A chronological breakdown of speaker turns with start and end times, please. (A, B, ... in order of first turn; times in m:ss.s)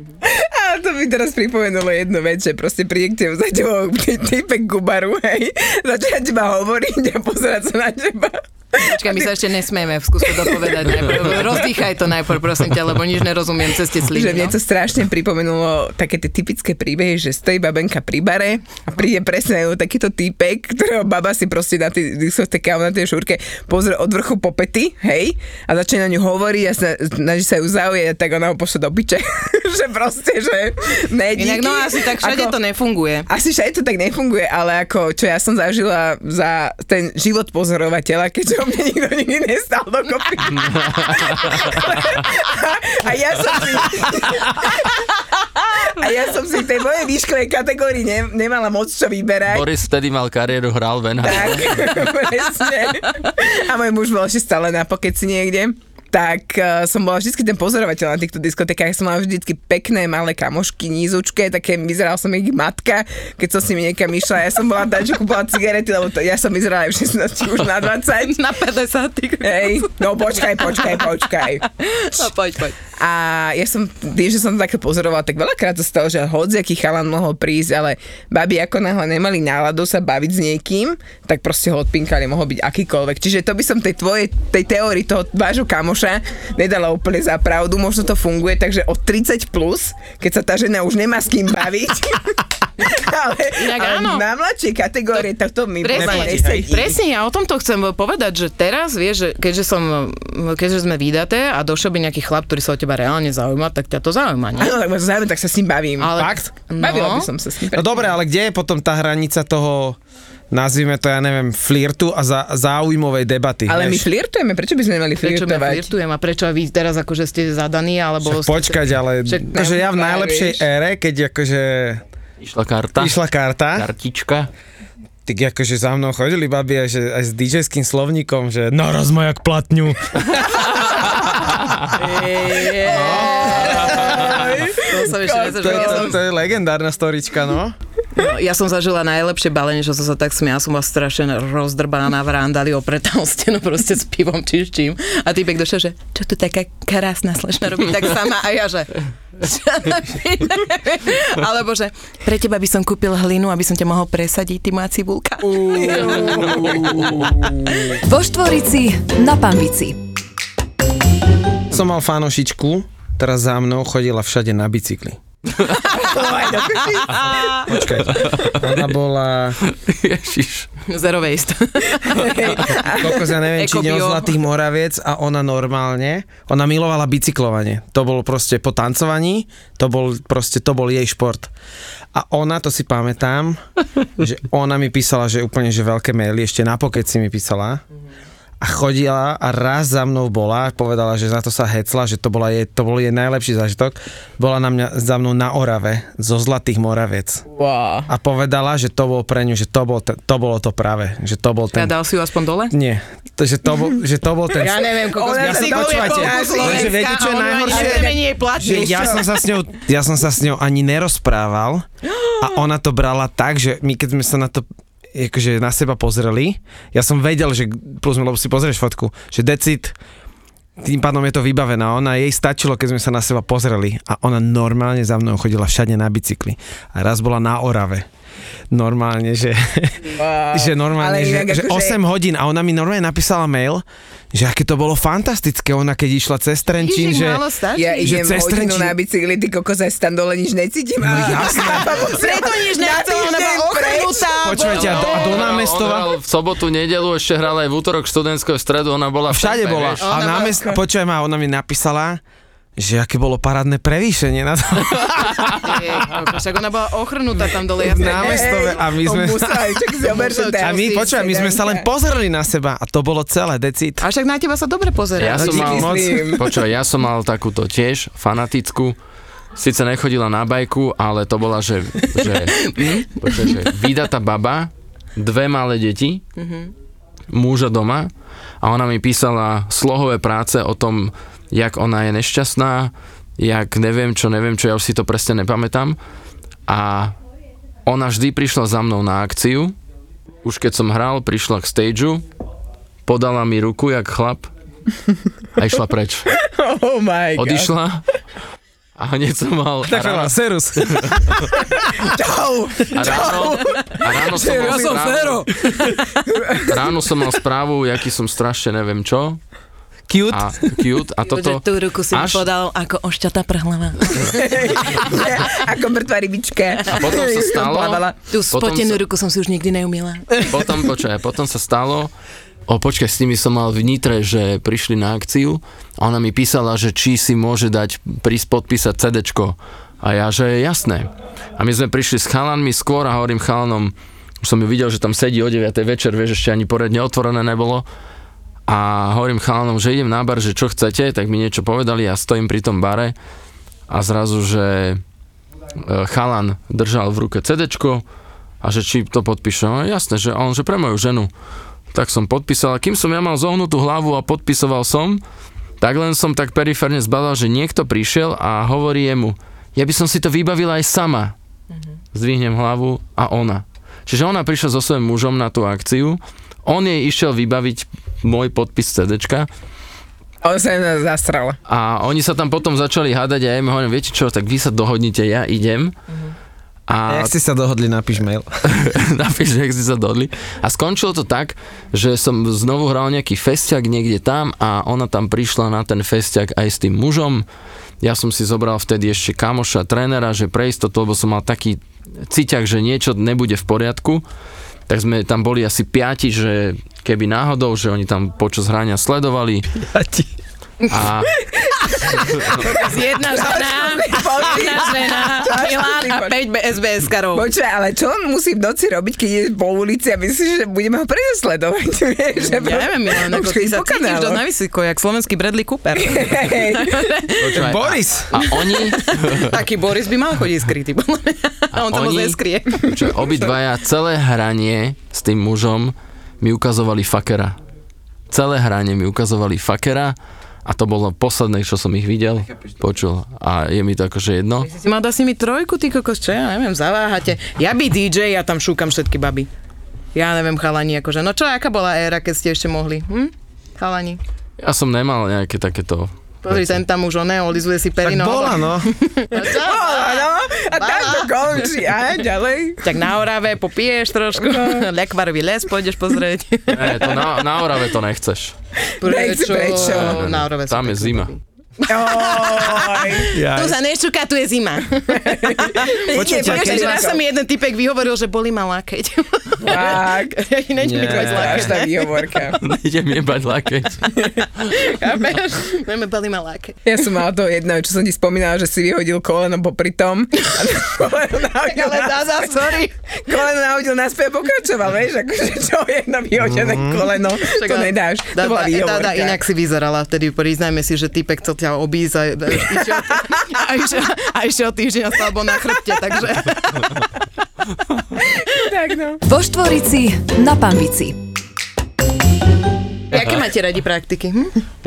0:00.2-0:09.5 A
0:08.8-0:14.6 B
0:10.2-0:11.6 A
0:14.1-0:32.6 A
0:31.4-0:33.3 B
0:33.3-0:49.7 A
0:49.5-0:51.9 C
0:51.2-1:08.4 A
1:08.2-1:11.1 B
1:09.4-1:12.3 A
1:11.8-1:12.8 B
1:13.0-1:37.0 A
1:33.6-1:34.2 B
1:35.8-1:44.8 B
1:35.9-1:36.7 D
1:44.6-1:48.1 A
1:46.0-1:47.3 B
1:46.1-1:46.5 D
1:47.7-1:50.0 D
1:50.5-1:54.1 D
1:53.7-1:55.9 A
1:55.2-1:59.5 B
1:58.2-2:02.0 D
1:59.5-2:00.6 A
2:02.4-2:03.2 C
2:03.0-2:03.9 D
2:03.7-2:04.5 C
2:05.3-2:10.4 D
2:12.0-2:16.2 B
2:12.5-2:16.1 A
2:12.8-2:14.5 D
2:15.5-2:17.8 D
2:18.2-2:36.4 B
2:35.6-2:37.0 A
2:38.1-2:40.0 E
2:41.7-2:45.2 D
2:45.8-2:47.6 A
2:47.2-2:47.7 B
2:47.6-2:49.6 D
2:48.2-2:48.7 C
2:49.6-2:50.7 C
2:50.9-2:52.4 B
2:52.0-2:53.2 A
2:52.9-3:01.5 D
2:53.6-2:54.3 B
3:02.1-3:03.6 D
3:04.2-3:07.8 D
3:08.6-3:17.5 D
3:17.5-3:18.1 A
3:18.1-3:21.9 D
3:21.7-3:22.7 B
3:22.7-3:31.9 D
3:24.6-3:29.3 B
3:25.1-3:29.2 A
3:32.4-3:40.0 D
3:40.8-3:48.1 D
3:48.7-3:57.4 D
3:50.1-3:52.0 A
3:56.8-3:58.2 B
3:57.8-4:04.4 A
3:58.0-3:59.0 D
4:01.0-4:02.1 D
4:01.5-4:05.5 B
4:04.4-4:06.1 D
4:04.6-4:10.1 C
4:09.3-4:12.2 D
4:10.0-4:10.6 B
4:10.3-4:10.8 A
4:12.8-4:15.8 D
4:15.5-4:18.7 B
4:17.8-4:19.9 D
4:18.0-4:21.9 A
4:20.1-4:21.2 B
4:20.6-4:24.0 D
4:24.0-4:25.8 B
4:25.2-4:29.0 C
4:25.3-4:26.4 D
4:25.4-4:26.5 A
4:29.6-4:36.2 C
4:32.3-4:33.6 B
4:36.4-4:36.7 B
4:37.3-4:38.1 C
4:38.6-4:46.0 C
4:46.7-4:47.2 C
4:47.9-4:49.8 C
4:50.4-4:52.2 C
4:53.1-4:54.5 C
4:55.6-4:56.3 C
4:56.3-4:57.7 A
4:57.4-4:58.0 C
4:59.0-5:01.4 C
4:59.8-5:01.3 D
5:02.0-5:07.1 A
5:02.9-5:05.5 C
5:04.5-5:05.5 B
5:06.7-5:09.4 C
5:10.1-5:10.6 D
5:10.3-5:12.5 C
5:11.2-5:14.4 B
5:14.3-5:18.1 A
5:16.9-5:19.0 C
5:18.2-5:20.5 B
5:20.4-5:22.1 C
5:22.7-5:37.9 C
5:38.7-5:43.2 C
5:43.9-5:45.0 C
5:45.9-5:48.0 C
5:48.6-5:51.3 C
5:51.9-5:55.2 C
5:55.8-6:01.3 C
6:02.1-6:09.5 C
6:10.4-6:11.6 A
6:11.7-6:16.0 C
6:16.9-6:17.3 C
6:17.1-6:18.5 D
6:18.7-6:27.4 C
6:28.0-6:34.2 C
6:34.9-6:39.7 C
6:39.9-6:40.3 D
6:40.9-6:41.4 C
6:41.4-6:46.3 A
6:42.6-6:47.5 B
6:47.3-6:54.4 A
6:52.4-6:57.6 B
6:56.0-6:57.1 A
6:57.4-6:59.5 C
6:57.5-6:58.3 D
6:58.4-7:03.0 B
7:01.7-7:07.6 C
7:08.3-7:14.7 C
7:14.6-7:19.5 B
7:20.1-7:24.2 B
7:24.6-7:26.7 C
7:26.4-7:31.4 B
7:28.0-7:29.0 D
7:29.4-7:33.0 A
7:32.8-7:37.2 B
7:34.4-7:34.9 A
7:36.7-7:38.5 C
7:39.0-7:40.3 A
7:39.0-7:52.1 B
7:39.7-7:41.3 C
7:41.8-7:43.4 A
7:43.3-7:43.8 D
7:45.2-7:47.2 A
7:46.1-7:47.1 D
7:49.6-7:52.6 A
7:50.8-7:51.8 D
7:52.6-7:54.3 C
7:54.7-7:56.8 B
7:56.9-8:02.6 A
8:01.7-8:02.9 B
8:03.3-8:09.4 A
8:06.4-8:07.0 D
8:07.4-8:17.1 B
8:18.2-8:19.2 A
8:19.3-8:21.2 E
8:23.1-8:24.6 B